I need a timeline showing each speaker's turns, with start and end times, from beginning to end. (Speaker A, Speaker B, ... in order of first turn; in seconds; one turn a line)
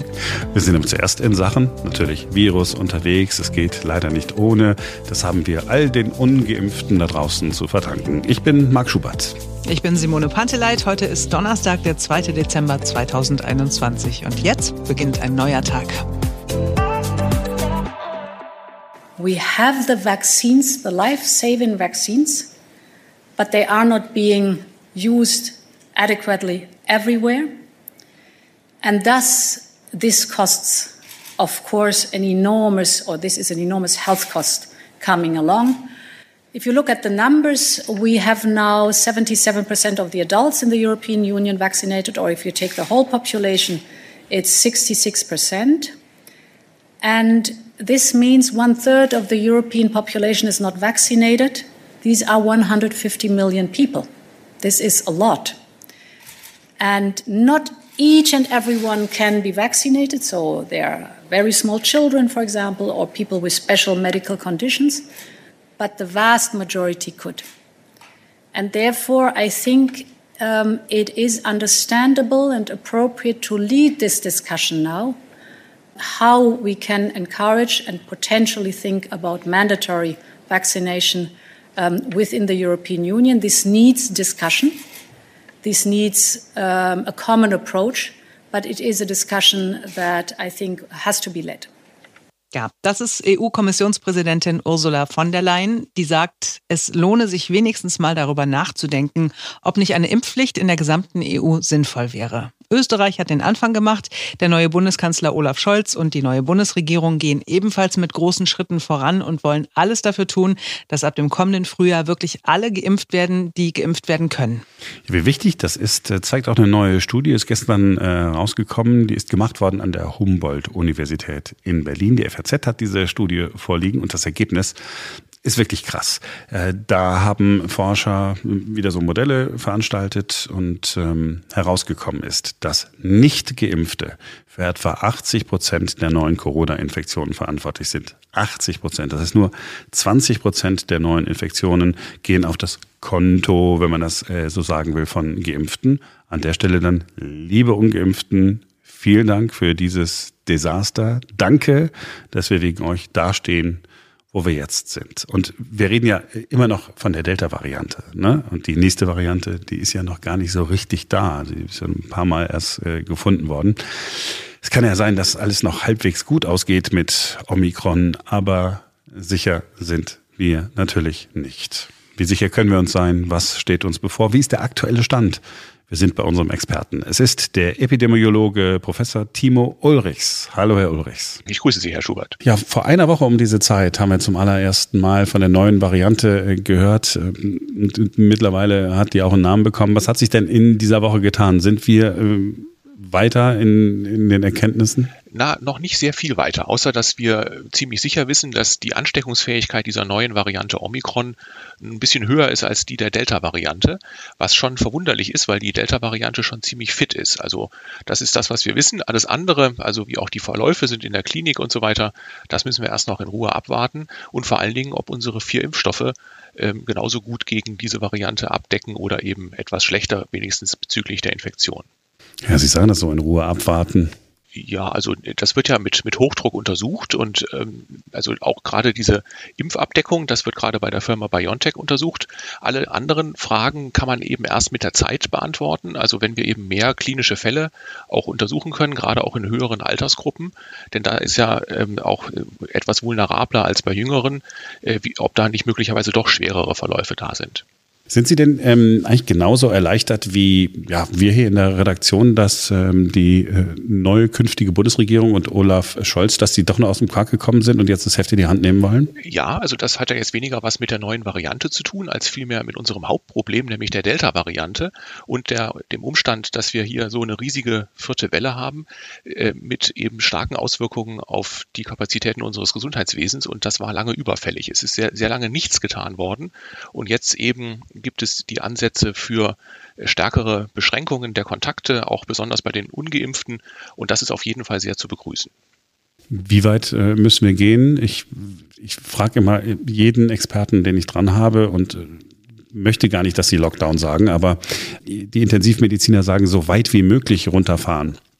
Speaker A: 0.3-9.4
Speaker B: 9.7-16.0
Speaker C: 19.2-22.5
Speaker C: 23.4-27.6
Speaker C: 28.8-35.9
Speaker C: 36.5-45.9
Speaker C: 47.0-54.1
Speaker C: 54.6-55.6
Speaker C: 56.8-65.1
Speaker C: 65.8-67.5
Speaker C: 68.5-75.2
Speaker C: 76.0-84.8
Speaker C: 85.6-91.7
Speaker B: 92.5-114.7
Speaker A: 115.1-124.8
Speaker A: 125.4-181.4
Speaker D: 181.5-182.4
Speaker A: 182.4-195.1
Speaker D: 195.3-221.9
Speaker A: 222.4-224.1
Speaker D: 224.5-247.6
Speaker A: 248.1-259.1
Speaker D: 259.2-285.5
Speaker A: 286.3-298.2